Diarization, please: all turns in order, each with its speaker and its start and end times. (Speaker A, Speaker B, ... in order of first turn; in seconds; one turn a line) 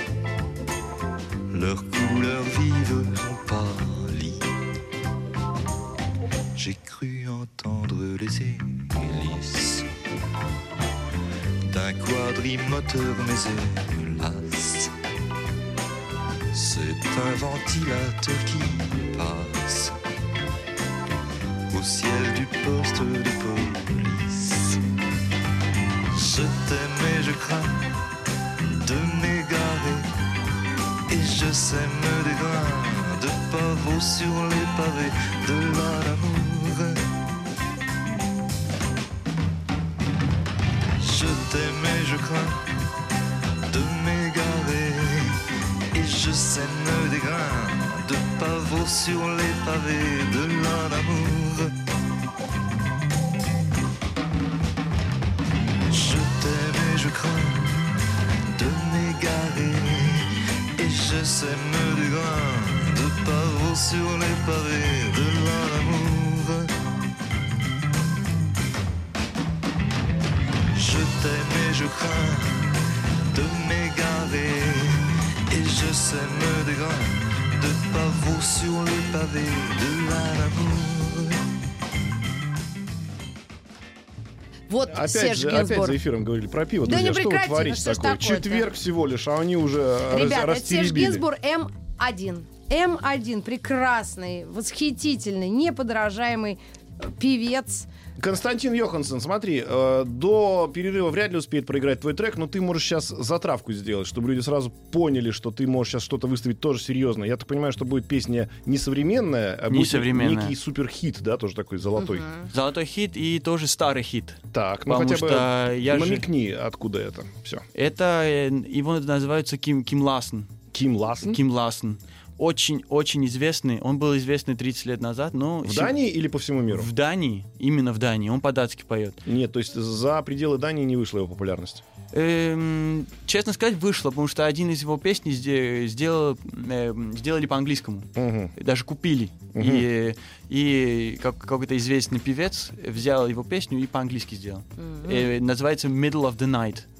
Speaker A: 1.5-4.4
Speaker A: 6.5-9.9
Speaker A: 11.7-14.9
Speaker A: 16.5-19.9
Speaker A: 21.7-24.8
Speaker A: 26.1-27.8
Speaker A: 28.7-30.1
Speaker A: 31.1-37.0
Speaker A: 41.0-42.7
Speaker A: 43.6-45.4
Speaker A: 45.9-51.7
Speaker A: 55.9-57.9
Speaker A: 58.5-66.7
Speaker A: 70.8-72.8
Speaker A: 73.3-81.4
Speaker B: 84.7-86.0
Speaker C: 84.9-91.2
Speaker B: 86.8-88.7
Speaker B: 90.1-97.9
Speaker C: 98.2-112.2
Speaker D: 109.7-110.5
Speaker B: 112.0-112.5
Speaker D: 112.5-116.3
Speaker C: 114.5-117.6
Speaker D: 117.7-120.5
Speaker C: 120.7-121.4
Speaker D: 121.2-126.0
Speaker C: 125.6-126.9
Speaker D: 126.7-129.2
Speaker C: 129.2-131.8
Speaker D: 132.1-146.8
Speaker C: 138.2-138.5
Speaker C: 139.5-139.8
Speaker B: 144.8-145.3